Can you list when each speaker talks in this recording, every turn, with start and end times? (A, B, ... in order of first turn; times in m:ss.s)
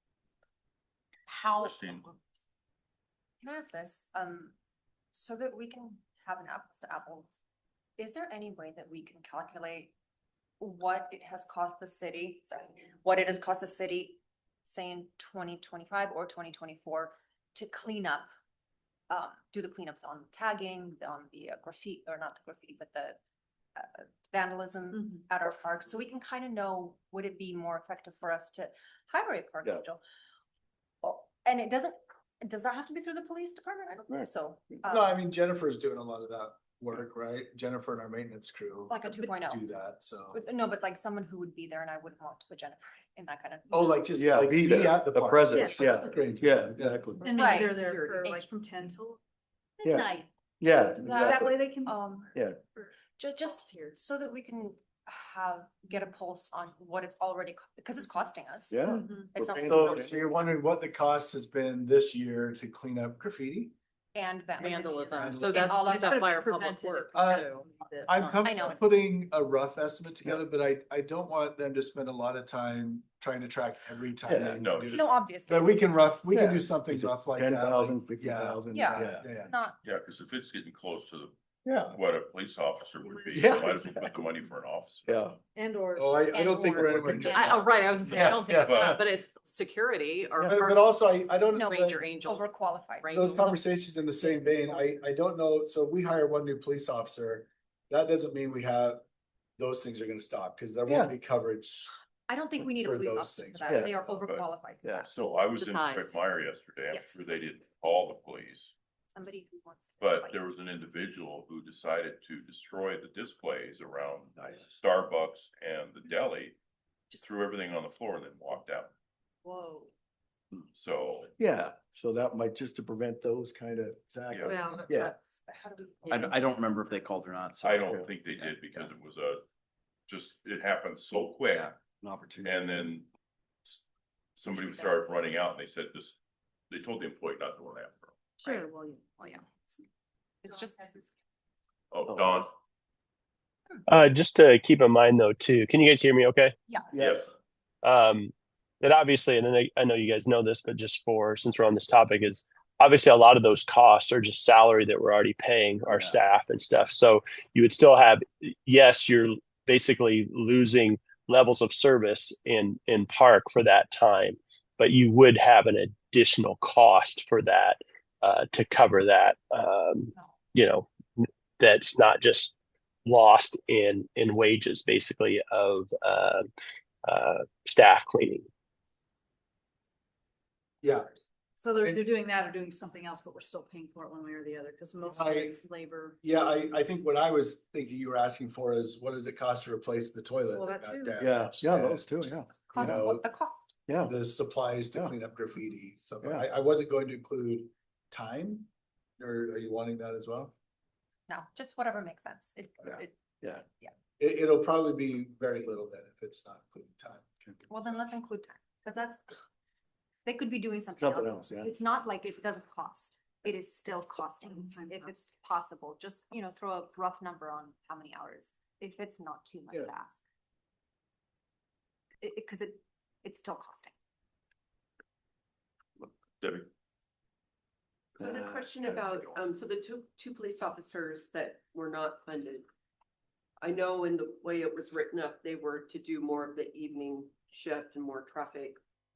0:01.3-0:01.8 A
0:01.6-0:02.1 B
0:03.4-0:04.5 C
0:05.1-0:07.4 C
0:08.0-0:09.9 C
0:10.6-0:18.3 C
0:19.1-0:23.2 C
0:23.8-0:30.0 C
0:31.0-0:35.2 C
0:34.8-0:40.4 D
0:38.9-0:39.6 C
0:40.3-0:44.0 C
0:43.7-0:47.1 D
0:44.1-0:47.3 E
0:45.5-0:45.9 F
0:47.2-0:48.2 G
0:47.2-0:49.2 F
0:47.3-0:48.5 C
0:49.8-0:52.0 F
0:49.8-0:50.1 E
0:50.6-0:51.6 E
0:51.0-0:52.3 C
0:52.3-0:52.6 E
0:53.1-1:00.1 C
0:53.4-0:54.0 F
0:58.7-1:00.2 E
0:58.8-0:59.3 F
0:59.6-1:03.7 D
1:04.1-1:06.4 C
1:04.6-1:08.7 A
1:05.1-1:05.6 D
1:05.5-1:08.0 F
1:07.1-1:07.5 D
1:08.0-1:19.5 D
1:08.4-1:08.9 C
1:14.2-1:14.6 E
1:14.6-1:15.1 B
1:14.9-1:15.9 C
1:16.3-1:19.3 E
1:18.7-1:19.8 C
1:19.8-1:25.3 B
1:21.6-1:22.0 E
1:23.3-1:24.2 E
1:25.1-1:25.4 E
1:25.6-1:27.0 F
1:26.0-1:29.0 D
1:26.3-1:27.6 C
1:27.1-1:27.4 E
1:27.3-1:30.8 A
1:28.6-1:29.0 B
1:30.4-1:32.0 D
1:31.5-1:33.5 C
1:31.6-1:33.6 A
1:33.1-1:39.0 D
1:39.6-1:41.9 D
1:40.9-1:41.1 E
1:42.3-1:45.2 C
1:42.8-1:44.2 D
1:43.7-1:44.0 E
1:45.1-1:48.7 B
1:45.6-1:46.2 A
1:46.9-1:47.2 C
1:49.1-1:50.4 C
1:50.0-1:56.6 B
1:57.1-1:58.9 B
1:59.5-1:59.9 F
2:00.7-2:01.3 B
2:01.4-2:05.2 E
2:04.3-2:04.6 B
2:04.5-2:05.1 F
2:05.4-2:07.2 C
2:06.0-2:08.9 H
2:07.6-2:09.4 B
2:10.1-2:11.8 B
2:12.0-2:12.9 E
2:12.4-2:13.1 B
2:14.4-2:16.2 B
2:14.5-2:15.0 C
2:16.7-2:18.6 B
2:18.4-2:19.8 F
2:20.4-2:21.1 C
2:21.9-2:22.5 B
2:22.1-2:22.4 E
2:23.9-2:26.5 I
2:26.9-2:27.2 E
2:26.9-2:27.3 B
2:27.8-2:56.4 I
2:35.8-2:36.2 E
2:57.0-2:58.4 I
3:00.8-3:01.2 D
3:01.6-3:06.2 F
3:01.8-3:02.0 D
3:05.0-3:05.6 D
3:06.2-3:13.2 D
3:10.5-3:11.2 F
3:11.2-3:13.2 E
3:12.5-3:13.7 C
3:13.9-3:14.1 E
3:14.0-3:20.5 D
3:21.3-3:23.2 C
3:24.2-3:27.3 D
3:27.7-3:29.4 C
3:30.2-3:40.2 C
3:31.0-3:31.7 E
3:34.4-3:35.2 F
3:42.2-3:43.9 C
3:46.0-3:46.7 B
3:48.1-3:52.7 G
3:48.2-3:49.1 E
3:53.6-3:58.8 G